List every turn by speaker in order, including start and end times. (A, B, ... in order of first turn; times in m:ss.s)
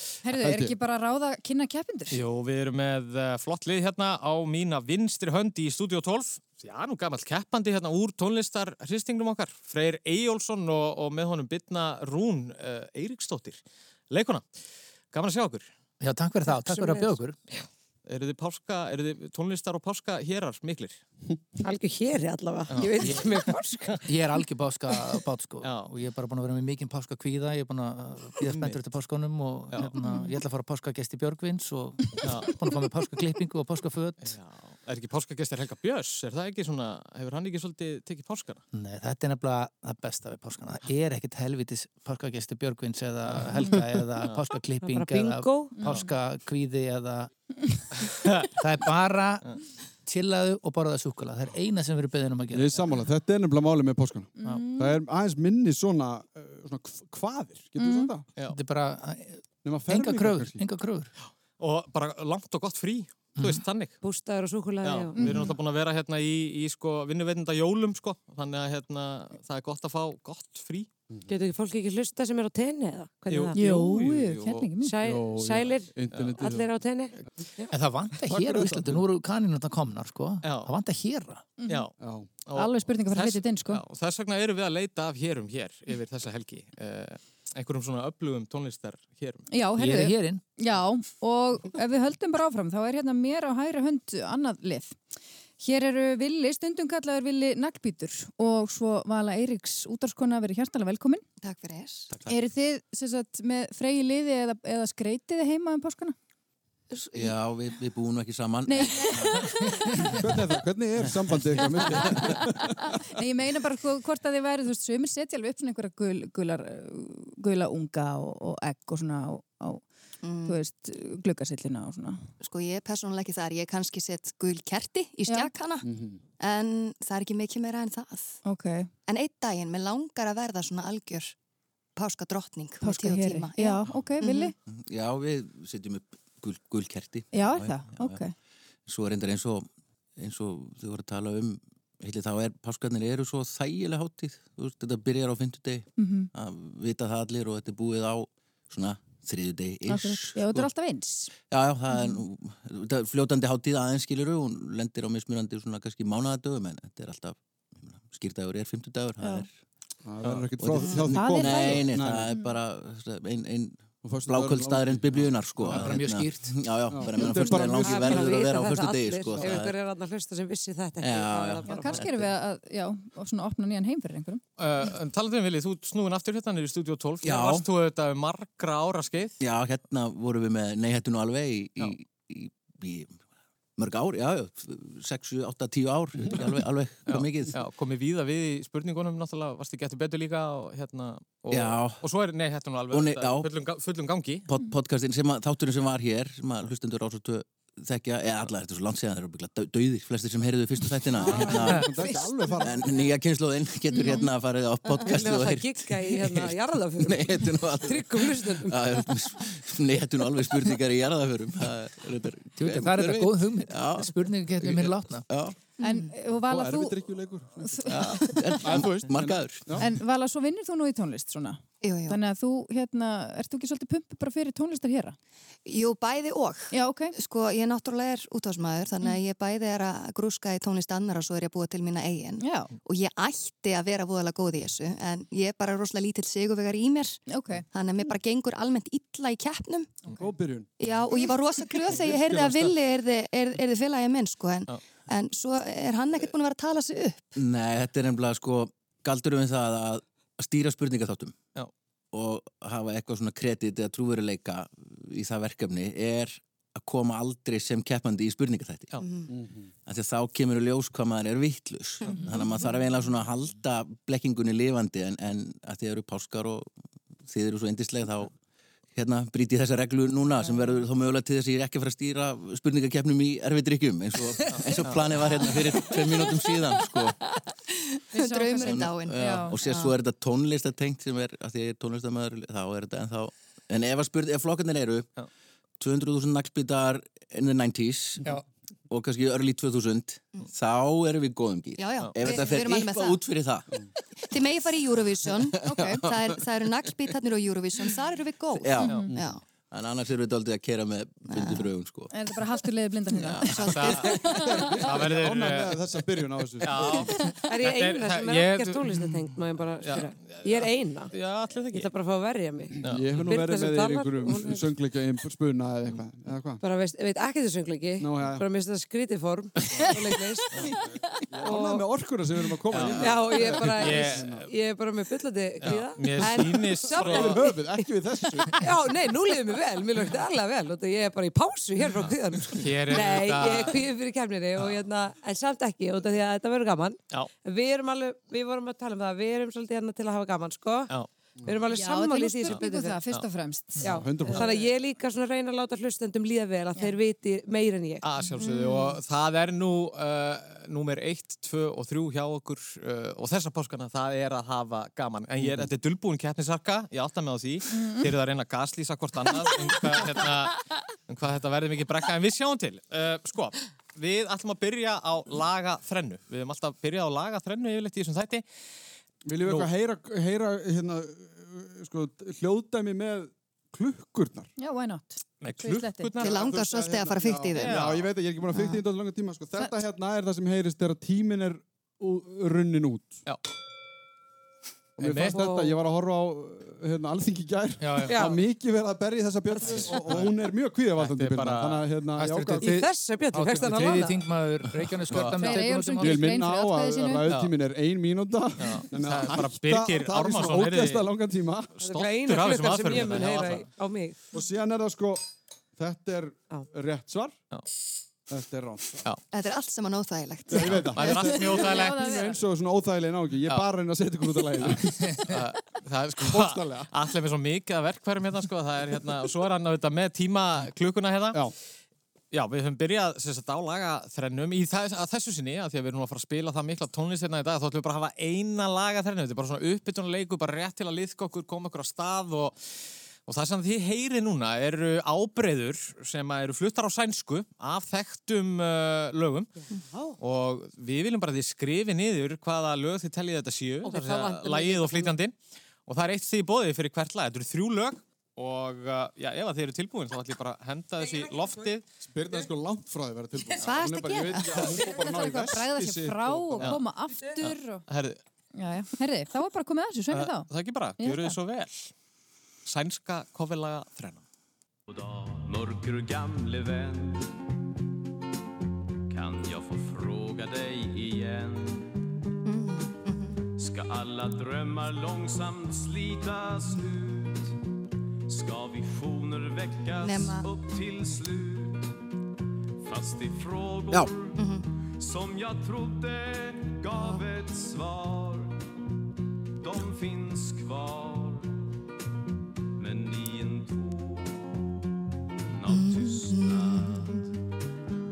0:00.2-0:02.2 A
0:00.3-0:00.7 B
0:02.1-0:14.4 C
0:15.1-0:15.7 C
0:16.0-0:17.4 D
0:16.5-0:17.6 E
0:18.0-0:21.0 C
0:21.6-0:24.0 E
0:22.7-0:23.4 C
0:24.0-0:34.4 D
0:25.6-0:25.9 C
0:28.4-0:28.8 C
0:32.2-0:32.5 C
0:34.2-0:38.6 C
0:38.7-0:47.3 D
0:44.8-0:45.9 E
0:45.8-0:46.1 A
0:48.4-0:49.5 D
0:50.0-0:52.7 D
0:52.5-0:58.3 B
0:54.4-0:55.0 A
0:57.8-0:58.1 A
0:58.5-1:01.1 D
0:59.6-1:00.7 B
1:01.6-1:04.0 C
1:03.4-1:03.6 D
1:04.0-1:05.3 E
1:04.8-1:10.9 C
1:05.2-1:05.6 A
1:11.3-1:13.6 E
1:13.3-1:14.4 C
1:13.5-1:15.0 A
1:14.0-1:16.7 B
1:14.8-1:17.7 E
1:17.7-1:21.5 D
1:18.2-1:19.0 B
1:20.4-1:20.7 C
1:21.6-1:21.9 A
1:21.6-1:21.9 C
1:22.0-1:22.3 B
1:22.4-1:29.5 C
1:22.5-1:23.8 A
1:29.5-1:35.0 A
1:29.8-1:30.4 D
1:35.6-1:41.2 A
1:41.4-1:42.1 F
1:42.2-1:46.2 A
1:47.1-1:49.4 G
1:48.7-1:50.1 A
1:50.1-1:52.9 B
1:52.0-1:52.4 A
1:53.0-1:59.8 A
2:00.2-2:00.6 F
2:00.4-2:02.2 A
2:02.4-2:05.8 F
2:05.8-2:06.2 B
2:06.4-2:08.4 F
2:08.4-2:08.9 A
2:09.1-2:11.3 F
2:12.0-2:14.5 F
2:12.8-2:14.5 A
2:14.7-2:18.2 G
2:17.3-2:18.3 A
2:18.8-2:30.7 G
2:26.0-2:26.3 A
2:29.9-2:31.3 A
2:31.5-2:39.5 G
2:40.0-2:42.3 B
2:40.2-2:40.5 C
2:40.6-2:49.7 G
2:40.9-2:41.9 A
2:44.0-2:46.1 B
2:45.7-2:46.6 D
2:46.9-2:48.4 B
2:47.2-2:52.0 E
2:51.0-2:52.3 G
2:51.6-2:54.4 A
2:54.6-2:59.4 C
2:57.2-2:57.6 G
2:59.4-3:03.2 G
3:03.8-3:07.6 G
3:07.1-3:14.4 C
3:11.5-3:12.0 G
3:12.9-3:13.5 G
3:14.5-3:35.6 G
3:21.1-3:22.8 B
3:23.9-3:24.2 A
3:25.0-3:28.9 E
3:32.6-3:35.2 D
3:35.8-3:37.0 A
3:35.8-3:36.1 F
3:36.5-3:38.1 B
3:37.6-3:38.6 A
3:37.9-3:39.8 G
3:38.6-3:39.9 B
3:39.8-3:45.2 A
3:41.8-3:42.2 F
3:45.6-4:00.0 F
3:46.7-3:47.1 A
3:52.4-3:52.7 A
3:57.3-3:57.6 A
4:00.2-4:00.7 B
4:00.8-4:07.3 F
4:01.9-4:02.8 B
4:07.4-4:11.4 G
4:12.1-4:19.0 G
4:19.0-4:19.3 F
4:19.3-4:19.7 B
4:19.8-4:26.7 G
4:22.0-4:22.4 F
4:27.2-4:28.3 G
4:28.9-4:37.2 G
4:34.5-4:35.0 C
4:35.7-4:36.2 F
4:38.0-4:39.9 F
4:38.1-4:39.6 A
4:38.6-4:45.1 G
4:45.8-4:48.3 G
4:48.9-4:53.7 G
4:51.8-4:53.2 F
4:54.2-4:59.4 F
4:55.2-4:56.4 G
4:55.6-4:56.0 A
4:58.5-4:59.1 G
4:58.8-4:59.1 A
4:59.7-5:02.1 G
5:01.3-5:01.7 F
5:02.1-5:04.8 A
5:03.2-5:03.9 G
5:03.4-5:04.5 F
5:03.6-5:04.2 C
5:04.3-5:07.1 B
5:04.8-5:09.1 C
5:07.4-5:11.1 E
5:09.8-5:11.9 C
5:11.7-5:14.7 E
5:12.8-5:13.4 C
5:12.8-5:16.6 B
5:16.6-5:20.8 E
5:18.0-5:18.4 B
5:21.3-5:24.5 B
5:21.4-5:21.9 E
5:22.7-5:24.5 C
5:22.9-5:40.9 E
5:25.6-5:27.5 C
5:26.2-5:28.6 B
5:31.9-5:33.8 C
5:41.4-5:43.0 E
5:41.7-5:44.6 A
5:42.5-5:43.2 C
5:43.8-5:48.0 E
5:43.8-5:44.6 B
5:48.0-6:08.4 C
5:48.4-5:49.0 F
5:57.7-5:58.0 A
6:09.2-6:14.5 B
6:09.4-6:09.7 C
6:14.6-6:16.2 A
6:15.4-6:16.4 C
6:16.2-6:17.8 F
6:16.2-6:23.2 B
6:17.5-6:18.1 C
6:18.5-6:18.8 F
6:25.0-6:32.8 B
6:25.0-6:25.4 C
6:25.1-6:25.8 E
6:27.8-6:28.2 D
6:28.0-6:28.4 E
6:29.6-6:30.3 C
6:31.0-6:31.8 C
6:32.2-6:36.2 D
6:32.6-6:34.2 E
6:35.1-6:35.4 C
6:35.4-6:37.3 A
6:36.0-6:41.7 B
6:38.6-6:41.1 C
6:41.8-6:43.7 C
6:41.8-6:44.2 E
6:44.3-6:47.4 B
6:48.3-6:49.0 B
6:49.3-6:50.9 F
6:50.5-6:55.1 B
6:50.8-6:52.1 C
6:51.0-6:52.4 A
6:54.6-7:01.4 C
6:56.2-6:56.9 B
7:02.3-7:12.5 C
7:13.2-7:19.5 C
7:20.2-7:25.3 C
7:23.8-7:25.2 E
7:25.9-7:31.8 C
7:31.0-7:31.7 E
7:32.0-7:36.8 B
7:33.6-7:34.8 F
7:34.7-7:35.0 E
7:34.9-7:37.8 A
7:37.4-7:38.2 C
7:38.6-7:41.4 A
7:40.1-7:41.9 C
7:42.6-7:44.2 C
7:44.9-7:47.4 H
7:49.1-7:51.9 H
7:52.4-7:53.4 F
7:53.6-7:57.6 H
7:58.3-8:01.9 H
8:00.0-8:00.5 F
8:02.8-8:04.4 H
8:04.4-8:04.6 F
8:05.0-8:08.6 H
8:09.6-8:11.6 H
8:12.8-8:14.8 H
8:15.5-8:17.3 H
8:15.7-8:17.2 F